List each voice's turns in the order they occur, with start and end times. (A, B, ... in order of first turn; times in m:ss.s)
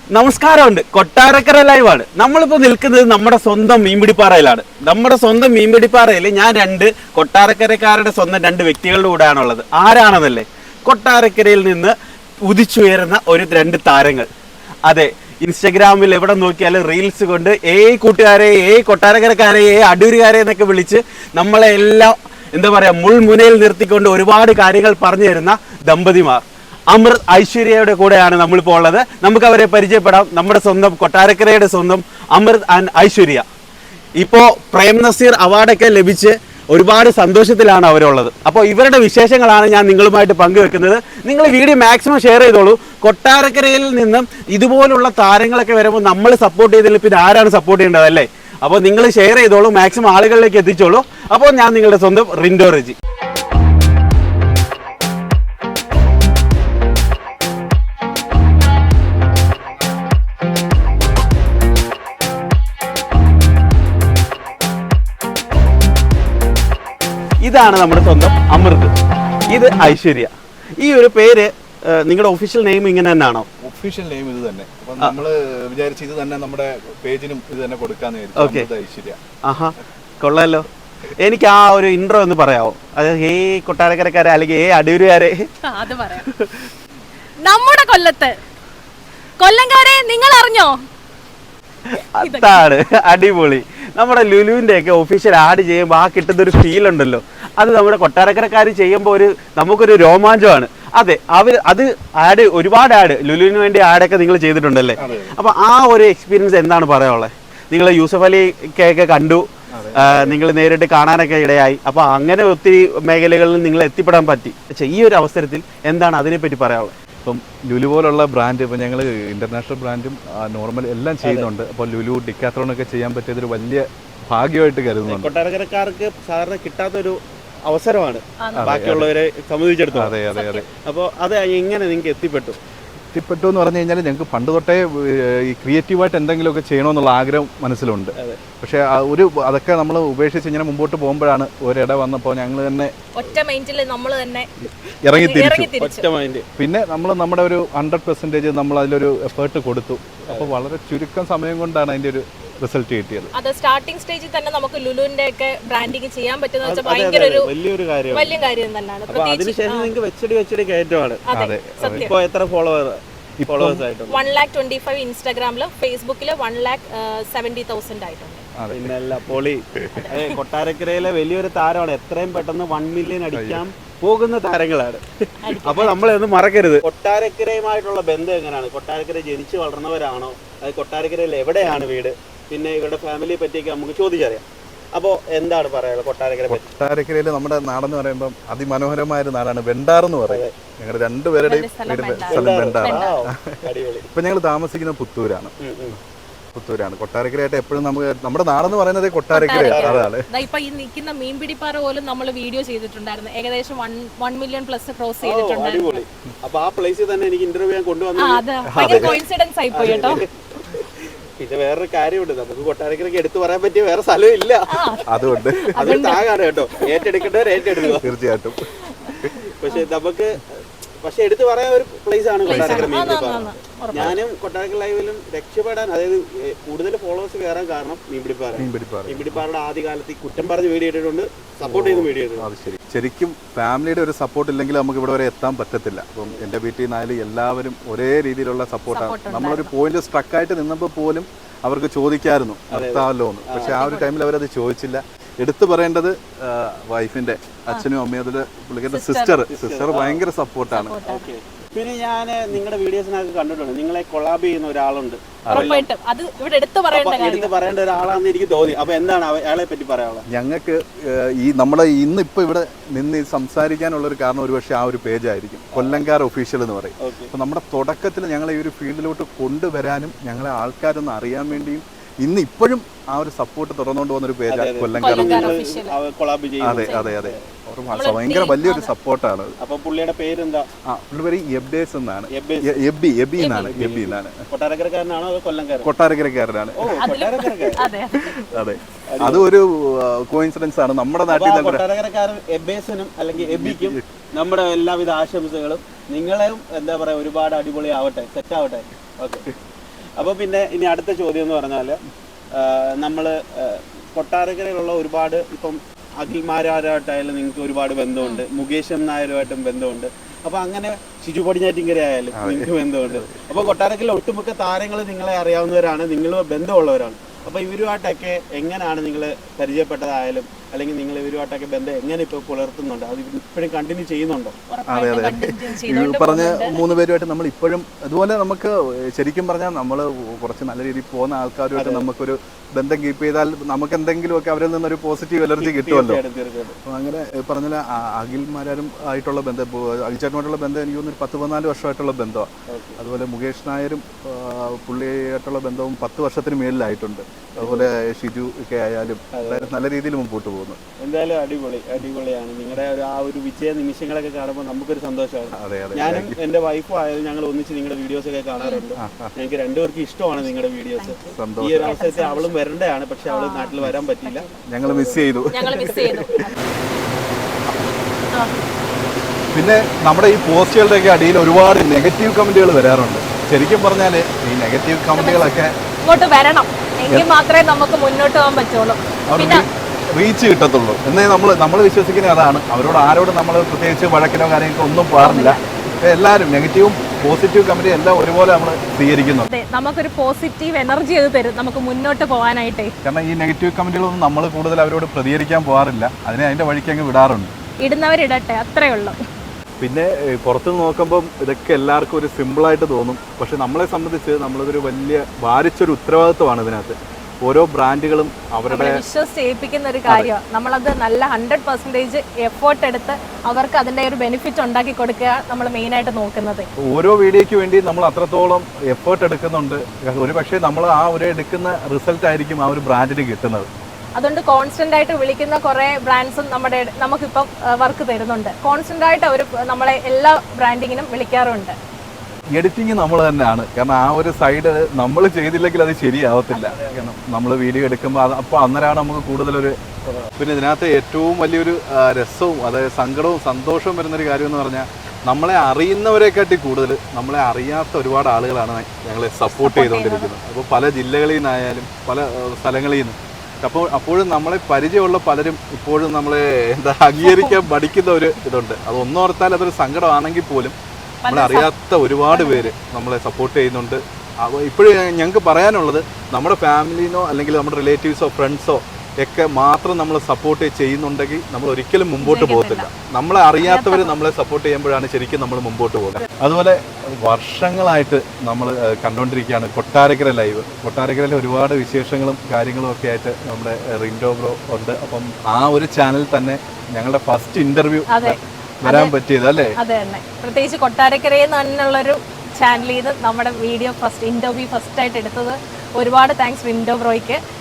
0:00.2-0:12.0 A
0:12.5-0:14.3 A
0:14.9-0:33.4 A
0:34.2-0:53.0 A
1:07.4-1:08.9 A
1:09.5-1:13.5 A
1:13.6-1:19.2 B
1:18.4-1:18.7 A
1:19.4-1:20.6 A
1:21.2-1:25.5 A
1:25.6-1:26.2 C
1:26.2-1:26.7 A
1:27.4-1:28.4 C
1:29.4-1:30.8 C
1:31.9-1:49.4 A
1:32.2-1:32.7 C
1:45.0-1:45.3 B
1:49.7-1:50.4 B
1:50.0-1:57.0 A
1:57.2-2:05.3 B
2:05.1-2:07.2 A
2:07.7-2:10.2 A
2:08.4-2:08.7 C
2:08.6-2:09.1 B
2:09.9-2:10.6 B
2:10.3-2:10.6 C
2:10.8-2:12.6 A
2:13.1-2:22.9 B
2:18.2-2:18.4 A
2:23.2-2:24.5 C
2:24.6-2:25.7 B
2:25.1-2:26.1 C
2:25.8-2:26.5 A
2:26.6-2:33.3 B
2:33.3-2:37.5 C
2:36.6-2:38.4 A
2:38.1-2:39.9 C
2:39.1-2:41.2 A
2:41.3-2:42.1 C
2:41.3-2:42.1 B
2:41.9-2:44.2 A
2:43.4-2:43.8 B
2:44.1-2:48.4 C
2:48.6-2:48.9 B
2:48.7-3:04.4 A
2:49.9-2:50.4 C
2:53.3-2:53.6 B
2:55.4-2:56.1 C
3:05.0-3:06.7 A
3:06.5-3:15.5 B
3:11.4-3:13.1 C
3:12.3-3:14.1 A
3:15.6-3:16.0 A
3:16.5-3:20.2 B
3:19.3-3:26.0 C
3:19.6-3:20.1 A
3:25.2-3:29.2 A
3:28.2-3:30.2 C
3:28.7-3:29.2 B
3:29.8-3:30.8 A
3:29.8-3:30.2 B
3:31.4-3:35.0 A
3:34.7-3:36.2 C
3:35.1-3:35.8 B
3:35.8-3:38.1 A
3:38.0-3:38.6 B
3:39.6-3:40.4 A
3:41.0-3:52.5 A
3:42.5-3:43.0 B
3:42.5-3:44.1 C
3:48.6-3:49.4 B
3:51.6-4:11.0 B
3:58.9-3:59.7 C
4:02.7-4:03.8 A
4:03.6-4:04.1 C
4:08.9-4:09.4 C
4:09.5-4:10.2 A
4:10.7-4:11.3 C
4:11.0-4:15.9 A
4:15.4-4:15.7 B
4:15.5-4:17.5 C
4:16.9-4:20.2 A
4:20.3-4:35.6 B
4:25.8-4:26.0 A
4:27.0-4:27.3 A
4:34.5-4:37.4 A
4:35.0-4:36.0 C
4:36.6-4:39.6 B
4:36.8-4:37.1 C
4:37.9-4:38.9 C
4:39.6-4:40.7 A
4:40.9-4:44.4 B
4:42.3-4:42.8 A
4:43.4-4:43.7 C
4:43.5-4:45.9 A
4:45.8-4:46.9 B
4:46.8-4:47.8 A
4:46.9-4:48.3 C
4:48.1-4:51.8 B
4:48.6-4:49.5 A
4:51.3-4:59.5 A
4:53.4-4:54.0 B
5:00.2-5:02.0 A
5:02.6-5:24.6 A
5:08.2-5:08.4 C
5:12.3-5:13.5 B
5:24.7-5:26.8 C
5:24.9-5:36.2 B
5:31.8-5:32.1 A
5:35.6-5:36.8 A
5:36.8-5:50.8 B
5:42.7-5:43.0 A
5:47.6-5:47.9 A
5:49.4-5:49.7 A
5:51.0-6:04.4 A
5:55.5-5:56.4 B
5:58.6-5:58.8 C
5:59.0-5:59.3 B
6:01.0-6:02.6 C
6:01.3-6:02.0 B
6:03.3-6:06.6 C
6:04.7-6:06.4 B
6:09.5-6:15.7 B
6:15.1-6:15.5 C
6:16.0-6:19.7 C
6:19.3-6:29.5 B
6:25.2-6:25.6 C
6:29.5-6:32.9 C
6:33.0-6:37.5 B
6:37.8-6:39.2 C
6:39.8-6:49.0 B
6:48.7-6:56.7 C
6:50.1-6:50.3 B
6:56.8-7:03.7 B
7:04.2-7:11.8 C
7:12.5-7:40.8 B
7:16.6-7:17.0 A
7:29.4-7:30.3 C
7:37.2-7:37.6 C
7:41.2-7:41.7 C
7:41.3-8:09.8 B
7:42.3-7:42.7 C
7:52.2-7:52.9 C
7:53.6-7:54.1 C
8:08.1-8:09.1 C
8:09.8-8:17.4 C